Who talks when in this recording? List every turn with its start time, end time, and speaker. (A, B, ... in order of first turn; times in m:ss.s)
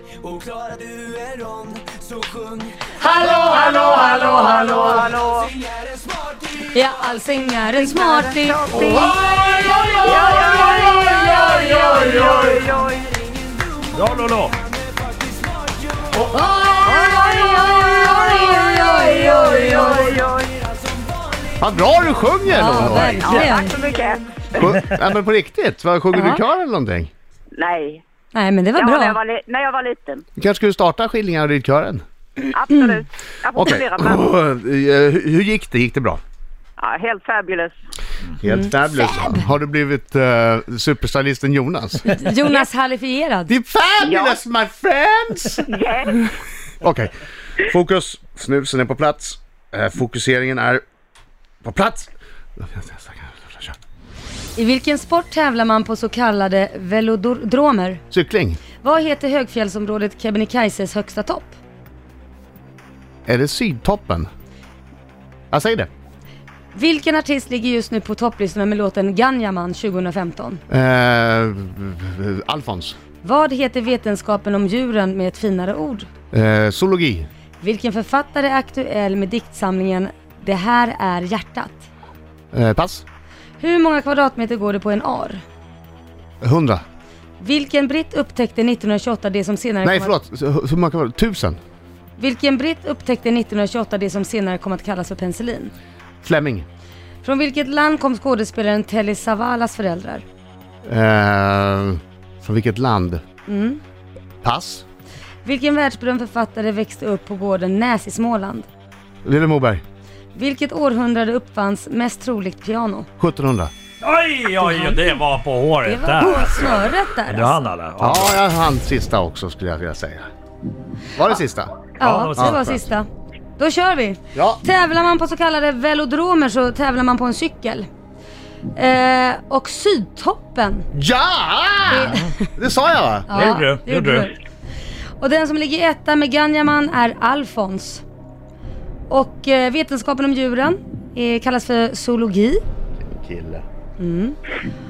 0:00.5-0:02.5 A
0:02.9-0:05.0 B
0:04.7-0:05.6 C
0:06.6-0:12.4 B
0:07.9-0:09.2 C
0:08.8-0:12.5 D
0:10.0-0:13.2 C
0:13.9-0:14.6 D
0:16.2-0:20.2 B
0:16.8-0:20.5 C
0:21.6-0:23.4 E
0:22.5-0:23.8 B
0:23.2-0:24.8 C
0:23.3-0:23.5 D
0:24.6-0:27.1 E
0:24.7-0:25.0 D
0:26.1-0:26.4 B
0:27.6-0:28.0 C
0:28.3-0:29.2 B
0:28.8-0:30.2 C
0:30.4-0:32.0 E
0:32.5-0:34.3 C
0:33.6-0:36.2 E
0:36.8-0:37.7 C
0:38.4-0:42.1 E
0:38.5-0:39.4 B
0:42.1-0:43.5 B
0:43.5-0:45.7 E
0:44.0-0:44.4 C
0:45.7-0:46.3 C
0:46.8-0:50.8 E
0:51.6-0:53.8 E
0:54.6-0:58.0 B
0:58.1-0:58.6 E
0:58.8-1:01.6 B
1:03.3-1:04.3 E
1:05.5-1:05.9 E
1:06.7-1:10.6 B
1:10.7-1:13.0 E
1:13.2-1:16.1 B
1:16.3-1:17.3 E
1:17.6-1:21.9 B
1:22.5-1:23.0 E
1:23.6-1:25.4 B
1:26.4-1:26.8 E
1:27.4-1:30.2 B
1:29.8-1:31.6 E
1:32.2-1:35.7 B
1:36.2-1:36.7 E
1:37.2-1:40.2 B
1:40.9-1:43.2 E
1:43.5-1:43.8 B
1:44.4-1:44.8 E
1:45.4-1:48.7 B
1:49.2-1:49.8 E
1:50.4-1:53.1 B
1:53.2-1:53.7 E
1:54.0-1:58.4 D
1:54.6-1:55.2 B
1:55.8-1:57.6 B
1:56.2-1:56.7 E
1:58.0-2:00.3 E
2:01.2-2:02.8 E
2:02.0-2:03.1 B
2:02.0-2:02.8 D
2:03.6-2:07.9 B
2:04.4-2:04.6 E
2:08.8-2:10.9 B
2:10.9-2:13.5 E
2:11.9-2:12.5 B
2:13.3-2:14.3 B
2:13.3-2:14.3 D
2:15.2-2:18.0 B
2:19.1-2:22.6 B
2:23.0-2:23.6 E
2:24.0-2:24.4 B